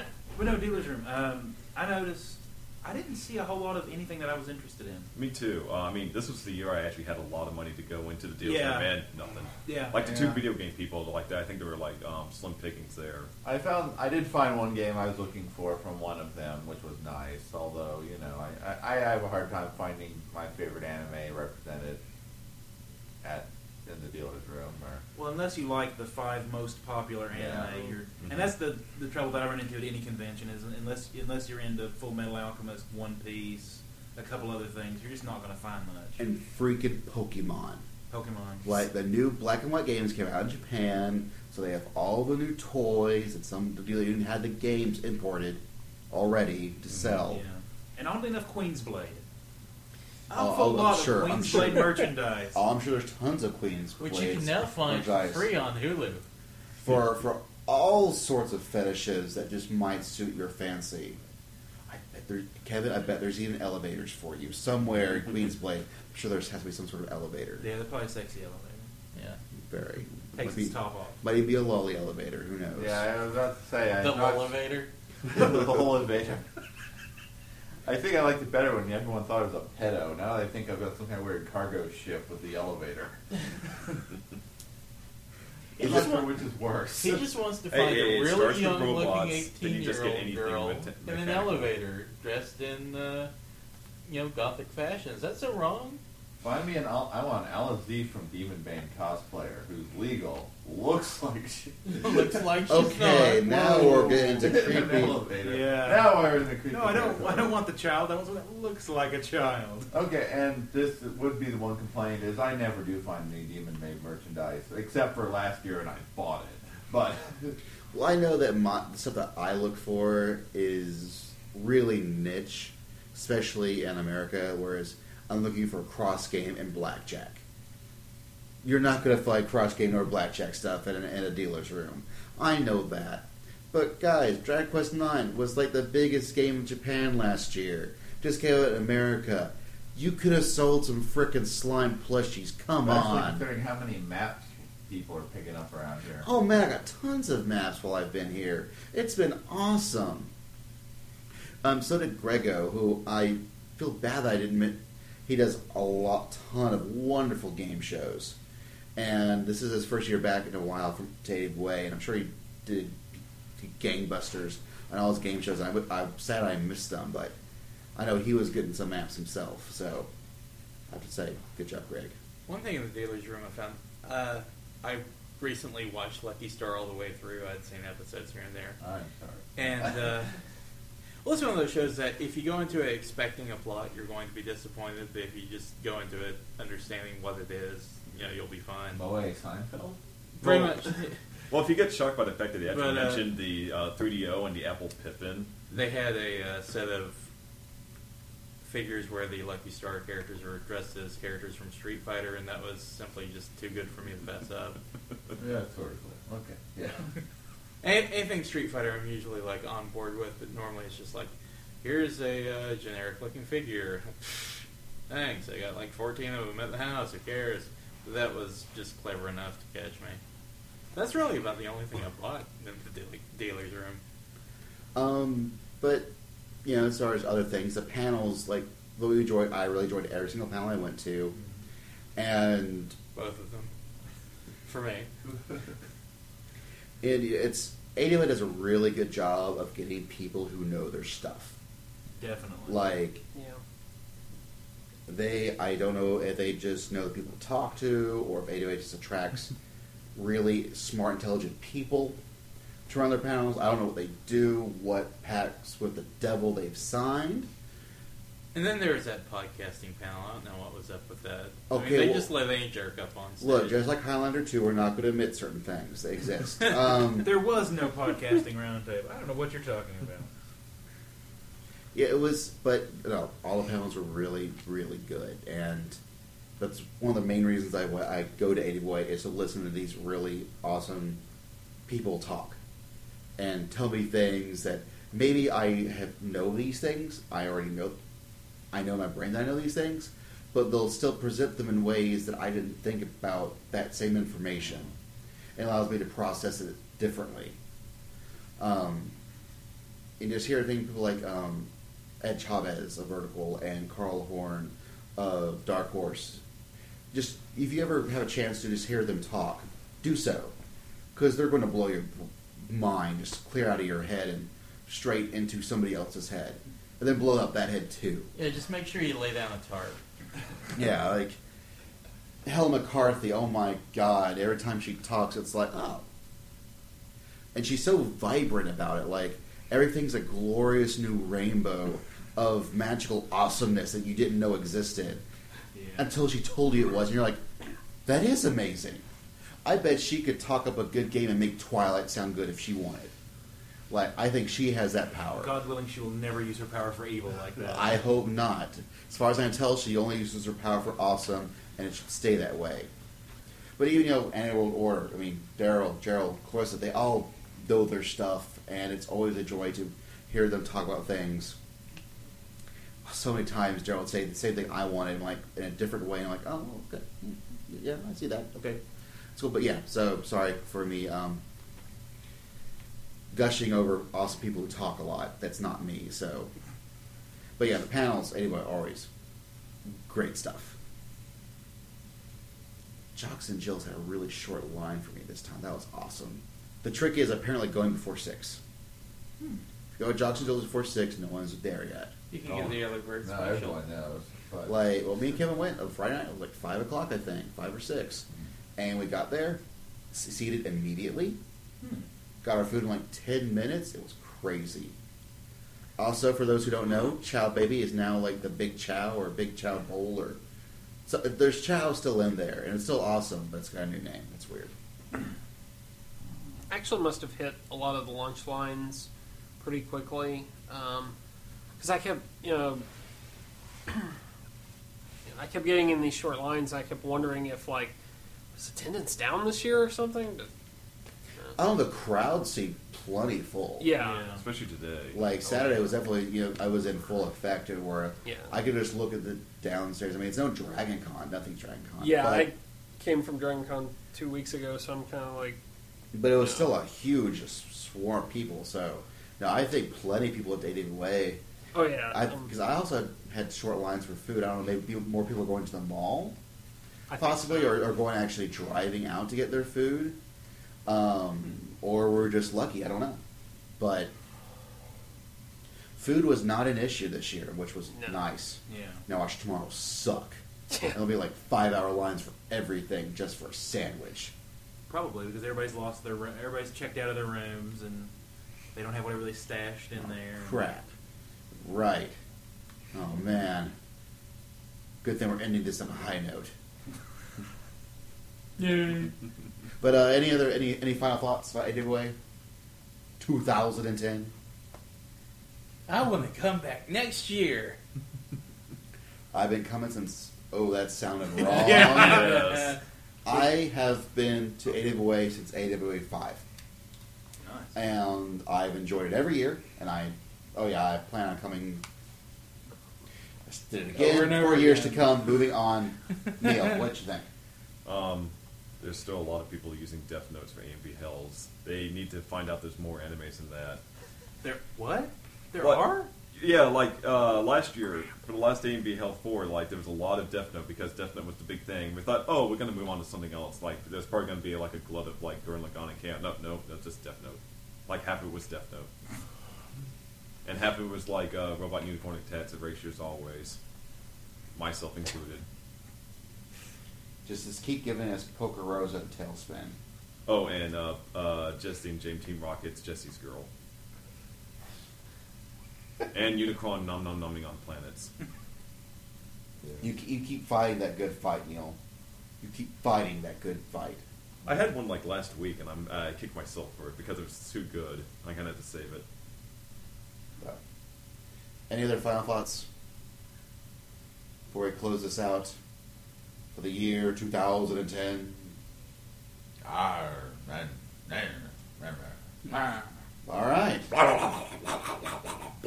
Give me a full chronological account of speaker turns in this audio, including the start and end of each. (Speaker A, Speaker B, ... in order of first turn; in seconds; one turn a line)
Speaker A: 0.3-5.1
Speaker B: 5.1-13.3
Speaker A: 8.4-9.0
Speaker A: 9.6-10.3
Speaker C: 10.1-10.4
Speaker C: 13.4-22.0
Speaker C: 23.2-25.0
Speaker A: 25.1-36.2
Speaker C: 27.3-27.7
Speaker D: 36.2-37.9
Speaker A: 38.1-38.8
Speaker D: 38.6-47.4
Speaker A: 47.3-49.2
Speaker A: 50.3-52.6
Speaker D: 50.4-55.5
Speaker E: 54.0-56.2
Speaker D: 56.8-61.2
Speaker D: 61.9-67.7
Speaker A: 67.6-68.9
Speaker E: 69.1-69.4
Speaker D: 69.6-73.1
Speaker A: 70.3-71.2
Speaker C: 72.8-74.6
Speaker E: 74.0-74.9
Speaker C: 75.3-76.5
Speaker C: 77.8-83.2
Speaker E: 85.8-86.3
Speaker C: 85.8-87.3
Speaker E: 86.9-93.3
Speaker B: 87.7-91.7
Speaker E: 94.1-96.0
Speaker C: 96.4-102.7
Speaker E: 101.9-104.5
Speaker D: 102.7-105.2
Speaker C: 103.6-107.6
Speaker A: 105.4-109.9
Speaker C: 109.9-117.6
Speaker D: 117.9-127.4
Speaker D: 128.6-143.5
Speaker C: 142.8-146.3
Speaker D: 146.2-150.3
Speaker D: 151.6-158.3
Speaker D: 158.9-167.3
Speaker D: 167.9-170.1
Speaker D: 170.9-172.1
Speaker E: 172.5-178.8
Speaker C: 178.8-180.3
Speaker E: 179.6-180.3
Speaker E: 181.2-189.0
Speaker C: 188.9-190.0
Speaker E: 190.4-191.2
Speaker B: 190.4-190.8
Speaker B: 191.5-195.5
Speaker E: 192.7-193.3
Speaker E: 195.7-197.2
Speaker E: 198.6-204.8
Speaker C: 205.4-207.1
Speaker E: 207.8-220.2
Speaker E: 220.9-224.0
Speaker D: 224.9-226.1
Speaker D: 226.6-231.4
Speaker D: 232.2-232.9
Speaker E: 233.1-233.7
Speaker E: 234.6-235.1
Speaker D: 237.0-241.6
Speaker A: 242.2-242.9
Speaker D: 242.7-243.2
Speaker F: 243.3-243.6
Speaker D: 245.1-249.5
Speaker D: 250.1-252.2
Speaker D: 252.9-257.5
Speaker E: 258.5-263.8
Speaker D: 261.7-262.3
Speaker D: 263.4-267.4
Speaker A: 267.1-270.3
Speaker D: 271.9-276.0
Speaker D: 276.6-281.2
Speaker D: 281.9-282.6
Speaker D: 283.4-288.0
Speaker D: 288.7-294.9
Speaker D: 295.6-297.6
Speaker D: 298.6-299.1
Speaker D: 300.2-301.7
Speaker D: 302.2-306.4
Speaker D: 307.1-310.5
Speaker D: 311.1-318.3
Speaker E: 318.4-320.0
Speaker D: 320.7-321.4
Speaker D: 322.4-326.1
Speaker D: 327.6-335.2
Speaker A: 335.7-336.1
Speaker D: 336.0-337.4
Speaker D: 338.1-339.1
Speaker D: 339.6-343.1
Speaker D: 343.9-345.5
Speaker A: 345.4-348.0
Speaker D: 347.6-352.9
Speaker D: 353.8-361.6
Speaker D: 363.1-368.6
Speaker A: 368.6-368.8
Speaker D: 369.4-371.4
Speaker D: 373.3-376.5
Speaker D: 377.6-379.1
Speaker D: 379.9-380.8
Speaker D: 383.1-388.6
Speaker D: 390.0-392.1
Speaker E: 392.3-393.8
Speaker C: 392.4-394.8
Speaker D: 394.6-398.3
Speaker D: 398.8-399.6
Speaker D: 400.1-401.4
Speaker A: 401.8-402.1
Speaker D: 402.4-404.9
Speaker D: 406.0-410.4
Speaker D: 411.1-414.7
Speaker F: 416.7-419.1
Speaker F: 419.6-421.1
Speaker F: 421.8-422.9
Speaker F: 425.3-427.9
Speaker F: 428.6-430.5
Speaker D: 431.6-433.9
Speaker F: 433.8-434.3
Speaker A: 433.9-434.4
Speaker B: 434.3-435.2
Speaker D: 435.1-442.5
Speaker A: 435.4-435.8
Speaker F: 438.2-438.5
Speaker F: 442.0-445.6
Speaker D: 446.1-451.4
Speaker F: 446.4-446.7
Speaker F: 451.7-452.5
Speaker D: 452.1-456.4
Speaker F: 457.1-457.7
Speaker D: 457.1-460.2
Speaker D: 460.9-463.2
Speaker D: 463.8-464.1
Speaker D: 465.9-474.3
Speaker F: 467.9-468.2
Speaker A: 468.6-469.0
Speaker A: 474.9-478.1
Speaker A: 478.7-480.7
Speaker D: 480.0-480.9
Speaker D: 481.6-482.2
Speaker D: 482.9-483.7
Speaker D: 485.0-486.5
Speaker E: 488.6-489.1
Speaker D: 489.8-492.1
Speaker D: 493.2-494.3
Speaker E: 495.9-497.8
Speaker D: 499.3-502.4
Speaker B: 501.5-502.8
Speaker E: 501.6-502.8
Speaker A: 501.7-502.4
Speaker D: 503.2-506.4
Speaker A: 507.4-507.7
Speaker D: 507.7-511.8
Speaker D: 513.5-517.3
Speaker A: 514.0-515.1
Speaker B: 517.9-523.8
Speaker A: 524.5-525.1
Speaker E: 525.5-525.9
Speaker B: 525.6-538.9
Speaker A: 525.6-526.1
Speaker B: 540.4-543.6
Speaker B: 544.5-545.4
Speaker D: 547.3-549.8
Speaker B: 550.3-553.5
Speaker B: 556.1-558.1
Speaker D: 559.8-561.8
Speaker D: 562.4-564.0
Speaker B: 564.5-569.0
Speaker D: 571.7-572.7
Speaker D: 574.5-575.6
Speaker D: 576.5-578.5
Speaker C: 579.6-582.8
Speaker D: 583.2-583.9
Speaker C: 583.9-584.8